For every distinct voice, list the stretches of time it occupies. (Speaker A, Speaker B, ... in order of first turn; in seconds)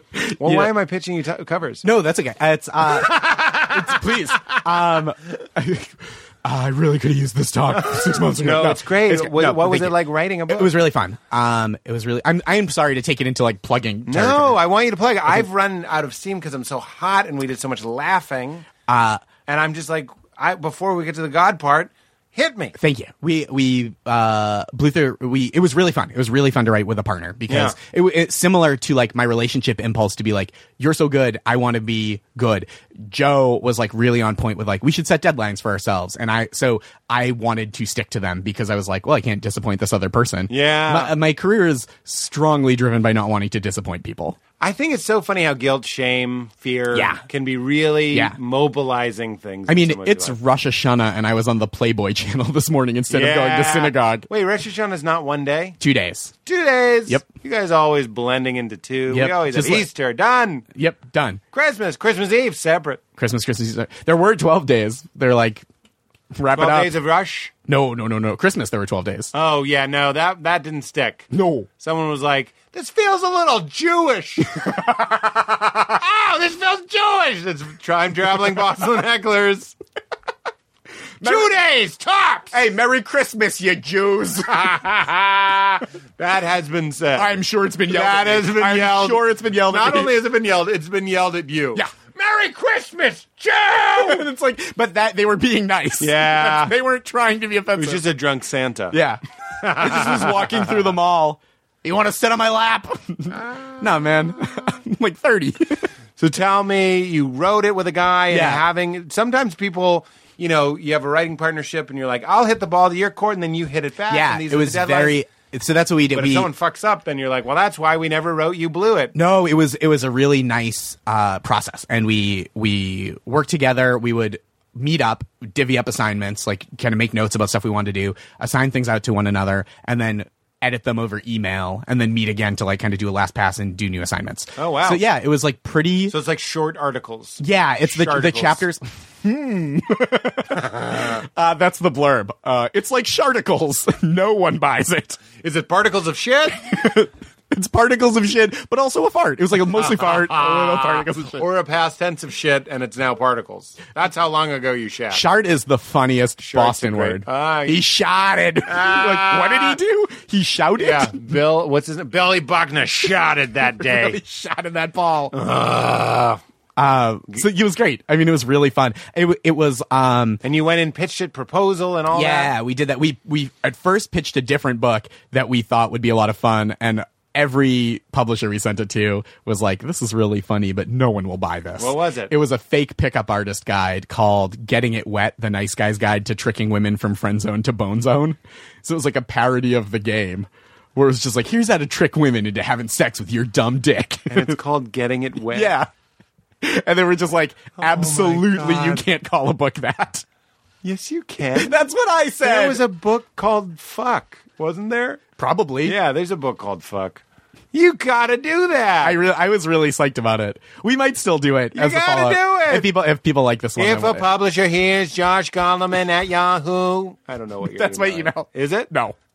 Speaker A: 0.1-0.7, 1.8-14.6, 18.9-19.2, 22.8-44.4, 46.9-47.2, 48.1-48.4, 49.7-54.3, 55.8-56.3, 59.1-59.9, 60.7-61.4, 63.2-65.7, 66.3-66.9, 67.7-69.3, 71.3-71.7, 74.6-74.9, 81.2-81.5, 82.5-84.9, 87.1-90.2, 94.0-98.0, 98.9-105.9, 108.3-108.6, 114.1-116.5, 119.1-136.1, 137.4-145.2, 146.5-151.4, 155.1-161.3, 163.8-165.3, 166.8-170.4, 172.1-194.6, 195.5-195.9, 196.6-200.2, 201.5-202.8, 205.4-206.0, 209.0-214.3, 217.6-219.2
Speaker B: 0.4-1.8, 2.9-4.6, 7.9-10.7, 14.1-18.6, 19.4-22.7, 27.5-27.8, 40.5-41.1, 44.6-50.4, 53.1-55.8, 56.5-60.6, 61.5-63.0, 66.5-67.5, 69.3-71.3, 71.8-79.8, 81.2-82.5, 84.6-85.6, 86.2-87.3, 87.9-94.2, 96.0-96.7, 97.8-99.0, 99.6-100.7, 103.4-103.8, 106.2-115.2, 116.1-119.1, 134.6-135.0, 136.1-138.6, 140.5-141.2, 145.4-146.6, 149.7-155.2, 156.4-157.8, 158.7-159.8, 160.8-164.2, 165.3-166.4, 170.4-172.5, 181.8-182.3, 194.3-195.8, 197.8-199.0, 200.8-201.7, 202.4-205.2, 205.8-209.2, 211.7-212.9, 213.8-218.9